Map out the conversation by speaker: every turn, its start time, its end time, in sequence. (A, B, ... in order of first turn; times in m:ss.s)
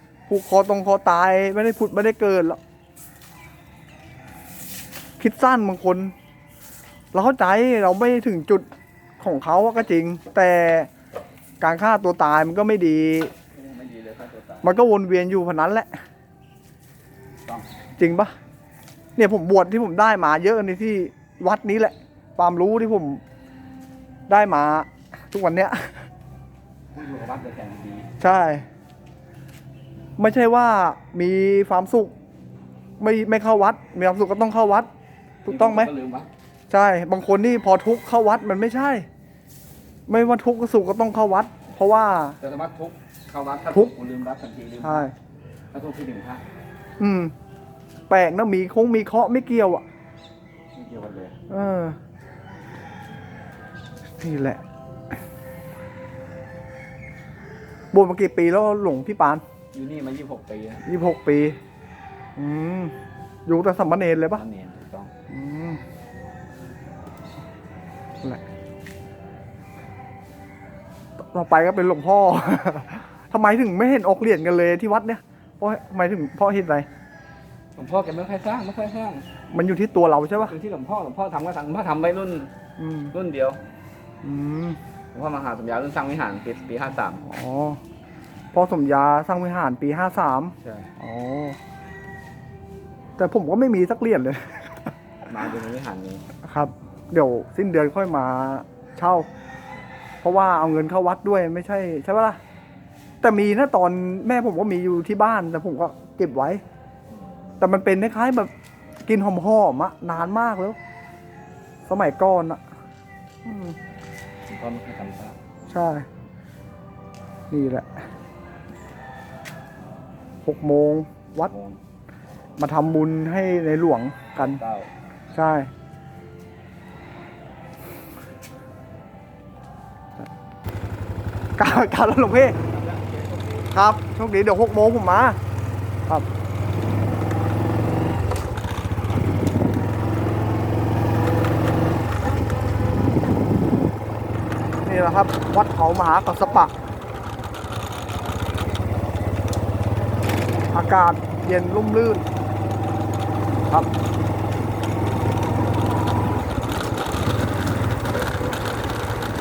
0:00.3-0:02.6 A
0:05.2-0:06.1 A
0:07.1-0:08.7 A
0:09.2-0:10.9 A
0:11.6-0:13.3 A
0:13.5-0:14.7 B
0:14.6-0:15.9 A
0:18.0-0:18.3 A
0:19.2-0:23.2 A
0:24.3-0:26.1 A
0:26.9-0:28.1 B
0:28.2-0:28.6 A
0:30.2-0:32.1 A
0:33.0-0:34.9 A
0:35.4-0:36.3 B
0:35.4-0:35.9 A
0:36.7-0:39.1 A
0:40.1-0:42.4 A
0:42.4-0:45.1 B
0:44.8-0:45.1 A
0:45.7-0:46.4 B
0:47.0-0:47.3 A
0:48.1-0:49.8 A
0:50.7-0:51.4 B
0:51.5-0:52.0 A
0:54.2-0:54.6 A
0:57.9-0:59.4 A
0:59.7-1:00.8 B
1:00.8-1:01.6 A
1:02.4-1:02.9 A
1:03.5-1:04.4 A
1:04.3-1:05.1 B
1:05.3-1:05.8 A
1:11.3-1:16.9 A
1:17.8-1:19.2 B
1:19.5-1:20.6 A
1:20.4-1:22.5 B
1:22.8-1:23.1 A
1:23.1-1:23.6 B
1:24.2-1:24.8 A
1:25.1-1:27.2 B
1:27.2-1:27.8 A
1:28.5-1:31.6 A
1:30.6-1:30.9 B
1:33.2-1:34.9 A
1:35.3-1:36.3 B
1:36.4-1:39.3 A
1:40.2-1:42.4 A
1:43.2-1:46.6 A
1:47.6-1:48.5 A
1:49.0-1:50.8 A
1:51.9-1:52.6 A
1:53.4-1:53.8 A
1:54.5-1:55.4 B
1:55.7-1:56.1 A
1:57.5-1:57.9 A
2:00.4-2:01.5 A
2:01.3-2:01.8 B
2:02.6-2:04.6 A
2:04.3-2:04.9 B
2:05.3-2:05.7 A
2:11.6-2:12.6 A
2:12.4-2:13.7 B
2:13.7-2:15.4 A
2:24.8-2:26.7 A
2:30.7-2:32.2 A